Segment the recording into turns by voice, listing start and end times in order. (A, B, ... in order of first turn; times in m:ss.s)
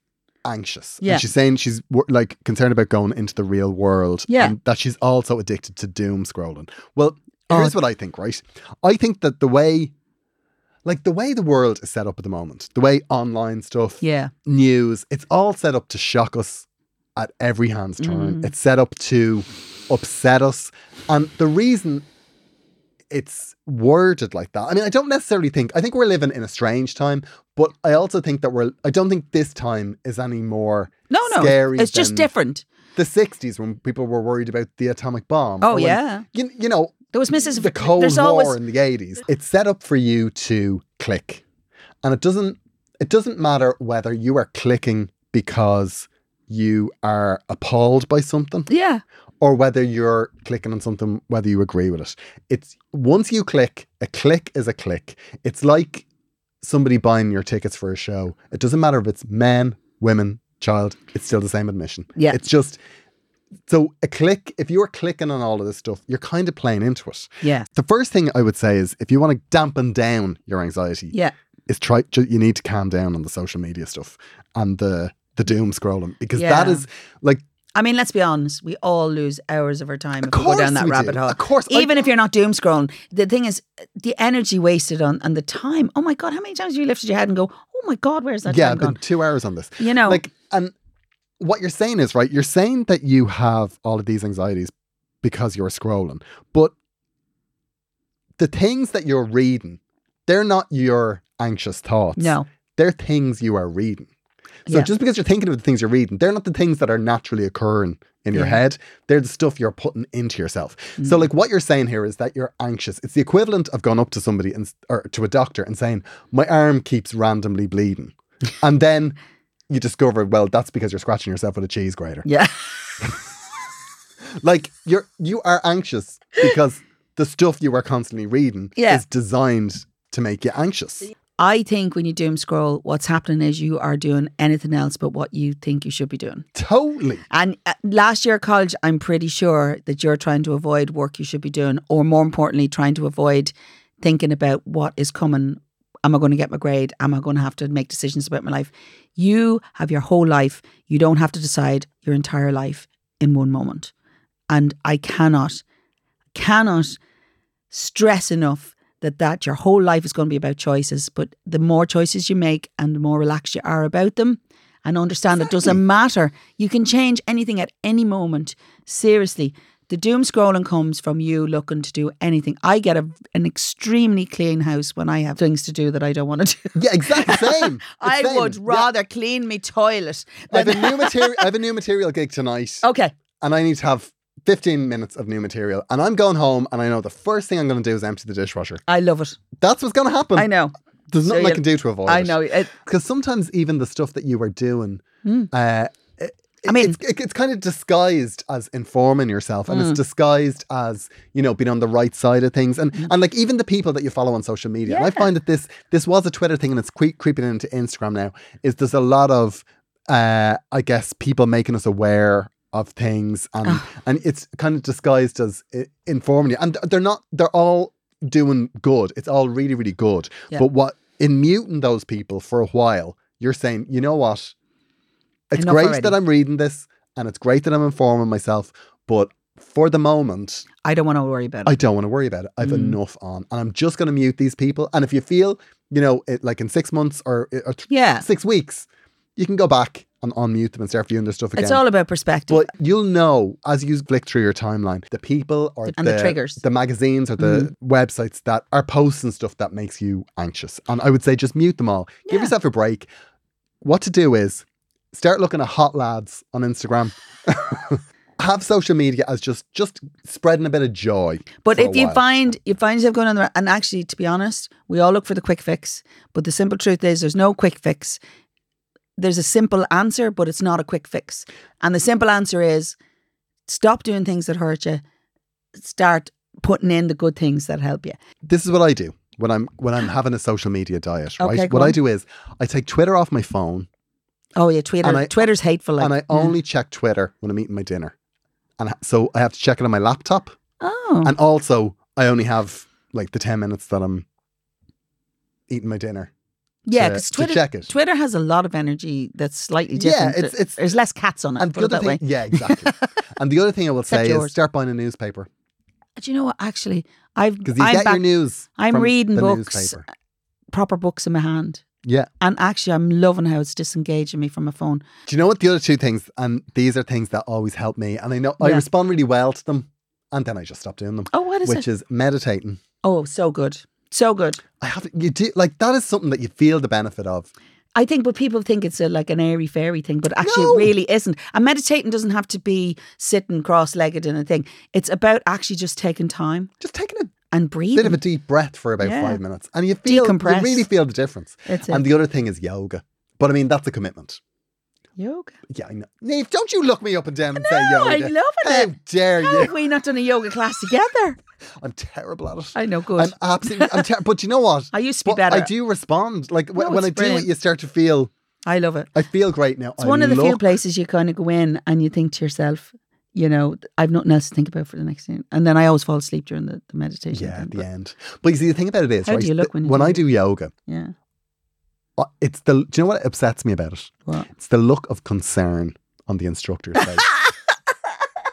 0:00.4-0:09.9 A
0:01.0-0:01.3 B
0:04.3-0:04.5 B
0:07.5-0:07.8 B
0:10.8-0:22.1 A
0:14.0-0:14.3 B
0:18.0-0:18.5 B
0:23.1-0:32.3 A
0:31.1-0:32.6 B
0:32.9-0:37.0 A
0:35.6-0:36.2 B
0:37.1-0:38.6 B
0:37.5-0:41.4 A
0:42.0-0:48.7 A
0:48.7-0:49.0 B
0:49.4-0:56.0 A
0:56.6-1:02.8 A
1:03.7-1:11.1 A
1:11.7-1:17.4 A
1:16.4-1:16.8 B
1:17.7-1:29.0 B
1:20.2-1:22.1 A
1:28.4-1:30.7 A
1:29.8-1:30.2 B
1:31.4-1:34.7 A
1:35.2-1:36.7 A
1:38.4-1:44.1 A
1:42.2-1:42.4 B
1:44.7-1:59.2 A
1:59.7-2:02.3 A
2:02.2-2:02.6 B
2:04.4-2:11.1 A
2:08.8-2:09.0 B
2:11.4-2:16.4 B
2:16.5-2:17.2 A
2:17.3-2:33.9 B
2:34.5-2:35.6 B
2:36.3-2:37.0 B
2:37.7-3:01.5 B
2:56.7-2:58.9 A
3:00.5-3:02.8 A
3:02.8-3:03.1 B
3:03.4-3:08.8 A
3:08.9-3:09.4 B
3:09.6-3:10.5 A
3:10.3-3:10.7 B
3:11.1-3:44.5 A
3:11.2-3:12.7 B
3:15.2-3:15.5 B
3:16.6-3:17.0 B
3:19.7-3:20.0 B
3:24.9-3:25.2 B
3:45.5-3:50.6 A
3:45.6-3:46.2 B
3:50.8-3:51.8 B
3:51.6-4:01.8 A
3:52.6-3:53.0 B
3:57.9-3:58.2 B
4:01.6-4:02.7 B
4:02.5-4:13.1 A
4:05.9-4:06.6 B
4:07.4-4:07.7 B
4:13.8-4:22.2 A
4:21.6-4:28.2 B
4:29.2-4:33.0 B
4:33.7-4:35.0 B
4:35.8-4:38.2 B
4:38.4-4:43.9 A
4:41.4-4:42.0 B
4:44.6-4:46.5 B
4:45.0-4:48.1 A
4:48.8-4:50.5 A
4:50.8-4:51.3 B
4:51.2-4:54.2 A
4:55.7-4:56.3 A
4:56.9-5:03.0 B
4:56.9-4:57.9 A
4:59.9-5:00.9 A
5:01.6-5:05.5 A
5:04.1-5:04.5 B
5:06.2-5:08.2 B
5:07.6-5:10.0 A
5:08.8-5:10.0 B
5:10.7-5:11.8 B
5:12.0-5:12.3 A
5:12.4-5:15.0 B
5:15.3-5:22.8 A
5:21.3-5:21.8 B
5:23.0-5:24.6 B
5:24.8-5:27.5 A
5:27.9-5:36.7 B
5:30.4-5:30.9 A
5:36.8-5:37.3 A
5:37.5-5:38.2 B
5:37.9-5:44.4 A
5:39.0-5:39.4 B
5:40.0-5:40.9 B
5:41.7-5:42.0 B
5:45.2-5:45.6 B
5:45.7-5:49.8 A
5:47.6-5:51.4 B
5:51.8-5:58.3 A
5:52.7-5:54.0 B
5:54.9-5:55.7 B
5:56.7-5:57.5 B
5:58.6-5:59.1 B
5:59.1-6:00.6 A
6:00.0-6:07.8 B
6:07.3-6:10.7 A
6:09.2-6:10.3 B
6:10.8-6:11.1 B
6:12.2-6:17.3 A